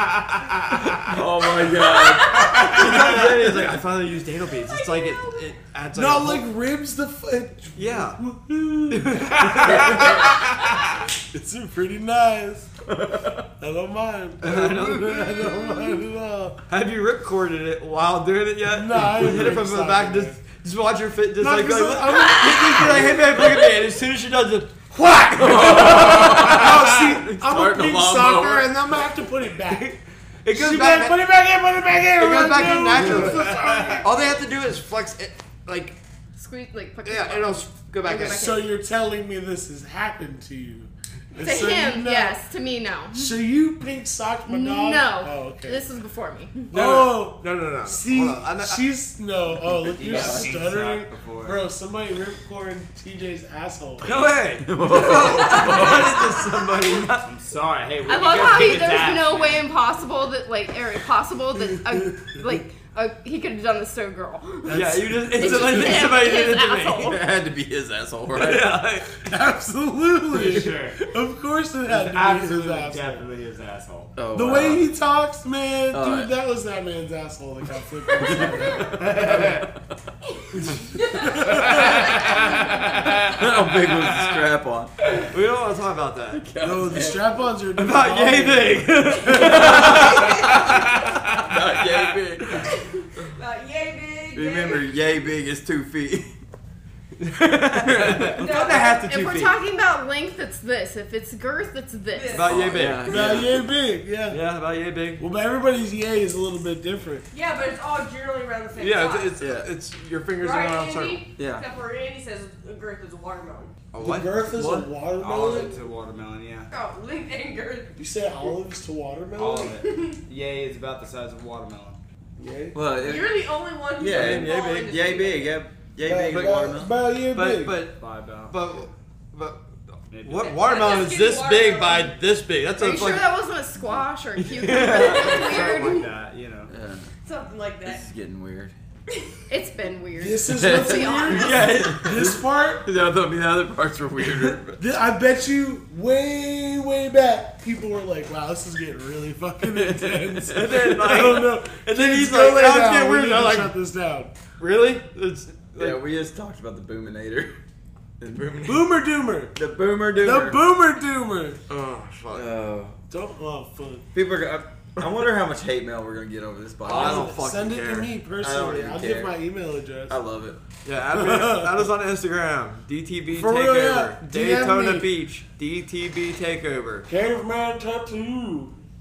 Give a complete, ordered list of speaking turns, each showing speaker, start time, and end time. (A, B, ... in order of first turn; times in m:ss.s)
0:00.3-0:00.8 A
0:00.8-0:01.7 B
0:01.1-0:03.6 C
0:01.8-0:02.8 D
0:02.3-0:06.4 B
0:02.5-0:02.8 A
0:04.6-0:05.5 D
0:05.9-0:10.3 E
0:07.8-0:08.2 B
0:08.9-0:10.6 B
0:09.6-0:10.2 A
0:11.2-0:12.7 E
0:13.1-0:13.4 C
0:13.6-0:16.6 E
0:14.4-0:15.8 B
0:16.7-0:24.8 B
0:18.6-0:20.4 E
0:21.4-0:23.7 E
0:24.9-0:29.9 E
0:25.4-0:28.7 C
0:25.5-0:26.8 B
0:29.6-0:31.3 B
0:30.5-0:34.3 E
0:32.2-0:36.0 B
0:33.0-0:34.0 A
0:36.4-0:38.8 F
0:37.0-0:38.4 B
0:38.1-0:42.4 E
0:41.4-0:43.4 F
0:43.1-0:45.8 E
0:44.5-0:46.7 F
0:46.7-0:48.8 B
0:46.7-0:54.1 E
0:49.8-0:51.6 A
0:50.0-0:50.6 C
0:54.0-0:57.3 B
0:54.1-0:56.4 C
0:55.2-0:55.8 D
0:57.1-0:59.7 A
0:58.0-1:07.2 F
1:04.7-1:07.2 B
1:05.5-1:06.0 C
1:07.1-1:08.8 C
1:08.3-1:09.3 B
1:09.2-1:13.3 E
1:10.3-1:11.0 A
1:11.9-1:14.1 A
1:14.2-1:14.9 C
1:14.3-1:19.1 E
1:15.9-1:16.3 C
1:18.2-1:19.6 C
1:18.8-1:19.7 A
1:21.0-1:23.0 D
1:21.1-1:22.0 E
1:21.2-1:24.5 A
1:23.2-1:24.9 C
1:25.2-1:26.4 B
1:26.3-1:27.3 C
1:26.6-1:29.1 E
1:27.8-1:32.7 B
1:29.2-1:32.7 C
1:29.3-1:31.4 D
1:30.8-1:31.1 A
1:32.7-1:34.9 D
1:34.3-1:36.4 C
1:37.2-1:39.6 B
1:37.7-1:38.6 C
1:38.1-1:38.3 A
1:38.4-1:39.1 D
1:39.1-1:42.5 F
1:42.1-1:43.0 D
1:42.3-1:43.5 B
1:42.5-1:43.6 C
1:43.1-1:44.4 E
1:44.3-1:45.2 B
1:45.2-1:47.3 E
1:47.3-1:49.4 D
1:48.8-1:51.2 B
1:49.4-1:49.7 C
1:50.4-1:53.7 D
1:51.4-1:51.7 C
1:53.9-1:54.9 B
1:54.0-1:55.8 E
1:55.2-1:56.7 A
1:56.7-1:58.0 D
1:58.0-1:59.8 E
1:59.4-2:02.0 A
1:59.8-2:00.2 D
2:02.4-2:02.9 E
2:02.7-2:06.9 C
2:02.9-2:05.6 D
2:04.0-2:05.2 B
2:06.0-2:07.8 E
2:06.3-2:06.7 B
2:07.3-2:09.7 B
2:08.0-2:08.6 A
2:10.1-2:10.7 A
2:10.2-2:13.3 B
2:10.4-2:12.2 D
2:12.8-2:16.1 F
2:14.4-2:15.9 B
2:14.7-2:16.1 D
2:15.4-2:16.7 A
2:16.7-2:17.1 C
2:17.2-2:18.1 D
2:17.8-2:18.7 C
2:19.5-2:21.6 F
2:20.2-2:22.8 E
2:20.5-2:24.8 C
2:21.2-2:22.3 B
2:24.8-2:34.3 E
2:29.7-2:30.6 C
2:30.5-2:33.8 B
2:34.6-2:36.0 B
2:35.8-2:37.6 C
2:38.2-2:38.9 C
2:38.6-2:39.6 E
2:39.6-2:40.6 C
2:40.1-2:41.6 E
2:41.7-2:42.5 B
2:42.3-2:43.0 C
2:43.1-2:44.1 E
2:44.1-2:47.4 C
2:46.8-2:49.0 B
2:46.8-2:50.2 E
2:48.4-2:49.4 C
2:50.1-2:50.6 C
2:50.8-2:57.1 B
2:51.1-2:51.8 E
2:53.3-2:55.1 E
2:57.1-2:58.8 E